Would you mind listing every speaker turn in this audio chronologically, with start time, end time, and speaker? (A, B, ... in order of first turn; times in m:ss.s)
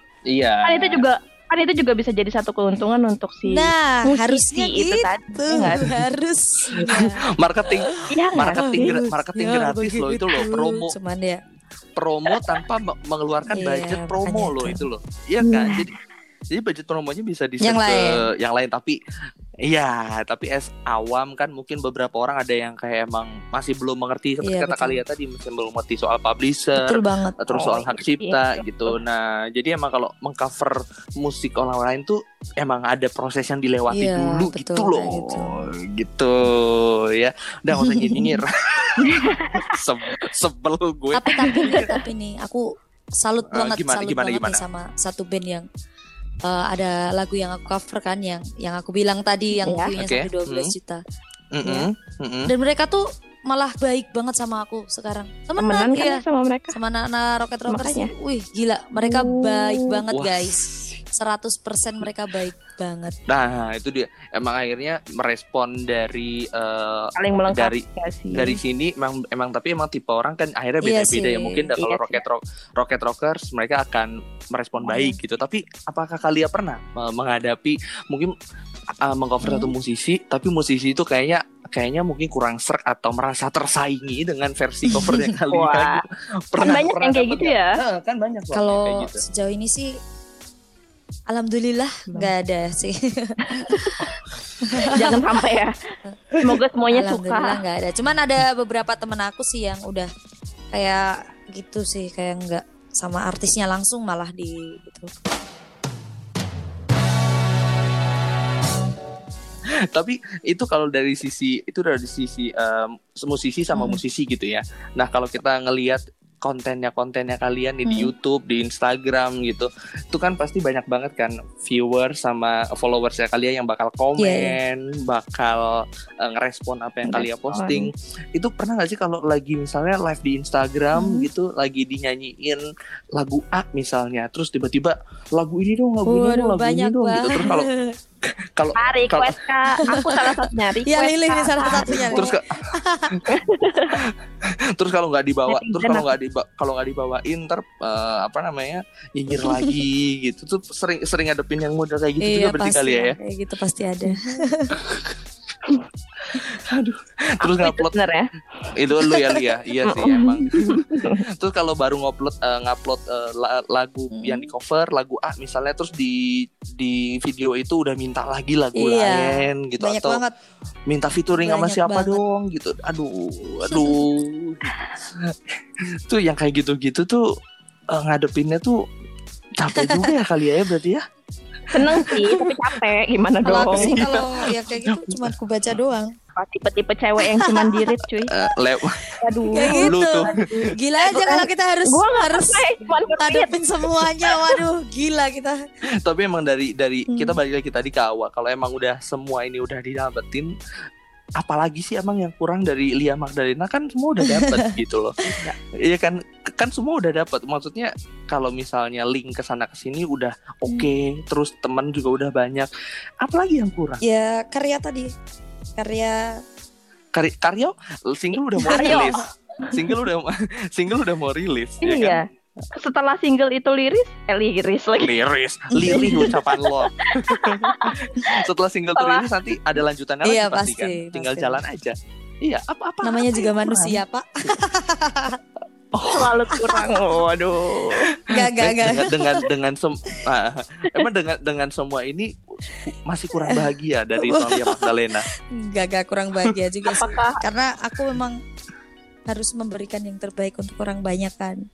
0:00.3-0:01.0 A
0:00.6-0:05.9 B
0:03.5-0:07.2 C
0:06.7-0:10.9 A
0:08.1-0:09.0 B
0:08.6-0:11.4 C
0:12.0-0:15.9 A
0:13.5-0:14.9 C
0:15.4-0:15.8 B
0:16.5-0:19.0 A
0:17.6-0:18.2 C
0:19.6-0:41.9 A
0:24.4-0:25.0 C
0:26.8-0:27.6 C
0:27.5-0:29.0 B
0:33.9-0:35.6 C
0:37.7-0:38.4 C
0:39.0-0:39.8 B
0:41.1-0:42.6 C
0:41.5-0:42.0 B
0:43.2-0:45.7 C
0:43.5-0:44.6 A
0:46.4-0:51.0 C
0:49.7-0:49.9 B
0:50.0-0:50.7 A
0:51.5-0:52.5 A
0:51.6-0:51.9 C
0:52.5-1:03.2 C
0:55.6-0:56.8 B
0:57.7-0:58.1 B
0:59.0-0:59.9 B
1:00.1-1:01.0 A
1:03.3-1:18.3 A
1:07.2-1:08.6 B
1:10.8-1:11.7 C
1:11.8-1:12.2 B
1:14.8-1:15.2 C
1:19.0-1:29.2 A
1:19.4-1:19.7 C
1:24.9-1:25.3 C
1:25.5-1:26.0 B
1:26.6-1:27.8 B
1:28.5-1:29.9 C
1:31.3-1:34.0 C
1:33.4-1:34.2 B
1:34.7-1:35.2 C
1:34.9-1:35.7 B
1:36.4-1:37.6 B
1:36.9-1:40.1 C
1:40.7-1:45.1 C
1:49.9-2:12.6 A
1:53.7-1:54.0 C
1:57.8-1:58.1 C
2:04.2-2:04.6 C
2:07.1-2:07.9 B
2:11.0-2:11.3 C
2:13.2-2:17.7 A
2:16.1-2:17.9 C
2:18.6-2:19.4 A
2:18.8-2:22.3 B
2:19.9-2:23.2 C
2:21.8-2:23.2 A
2:23.3-2:24.0 B
2:24.7-2:33.2 A
2:25.5-2:26.1 B
2:29.4-2:29.7 C
2:32.2-2:34.8 C
2:34.8-2:35.2 A
2:36.3-2:37.9 A
2:37.4-2:38.3 B
2:38.8-2:50.2 A
2:39.9-2:41.2 B
2:44.1-2:44.5 C
2:48.8-2:50.3 C
2:50.9-2:55.4 A
2:51.4-2:52.2 C
2:53.7-2:54.0 C
2:56.1-2:57.2 A
2:57.9-2:58.8 A
2:59.6-3:01.0 A
2:59.8-3:00.1 C
3:01.7-3:02.5 A
3:01.7-3:04.0 B
3:03.4-3:06.1 C
3:03.5-3:05.3 A
3:06.4-3:08.3 B
3:07.4-3:07.8 C
3:08.3-3:09.1 A
3:09.2-3:13.6 B
3:09.5-3:15.6 C
3:09.7-3:10.7 A
3:14.2-3:14.5 B
3:16.0-3:20.5 A
3:17.1-3:17.4 C
3:21.4-3:32.7 A
3:24.2-3:24.8 C
3:33.2-3:34.0 A
3:34.0-3:35.1 C
3:35.8-3:36.3 C
3:37.1-3:42.2 A
3:38.6-3:39.2 C
3:38.7-3:39.7 B
3:41.8-3:45.2 B
3:45.0-3:54.0 A
3:45.7-3:46.4 C
3:45.8-3:48.4 B
3:49.0-3:49.3 B
3:50.2-3:51.6 C
3:53.0-3:55.4 C
3:55.9-3:56.3 A
3:56.1-3:58.1 B
3:58.2-4:05.3 A
3:58.3-3:59.4 C
4:03.4-4:05.0 C
4:05.6-4:08.4 C
4:06.9-4:07.4 B
4:09.3-4:11.6 C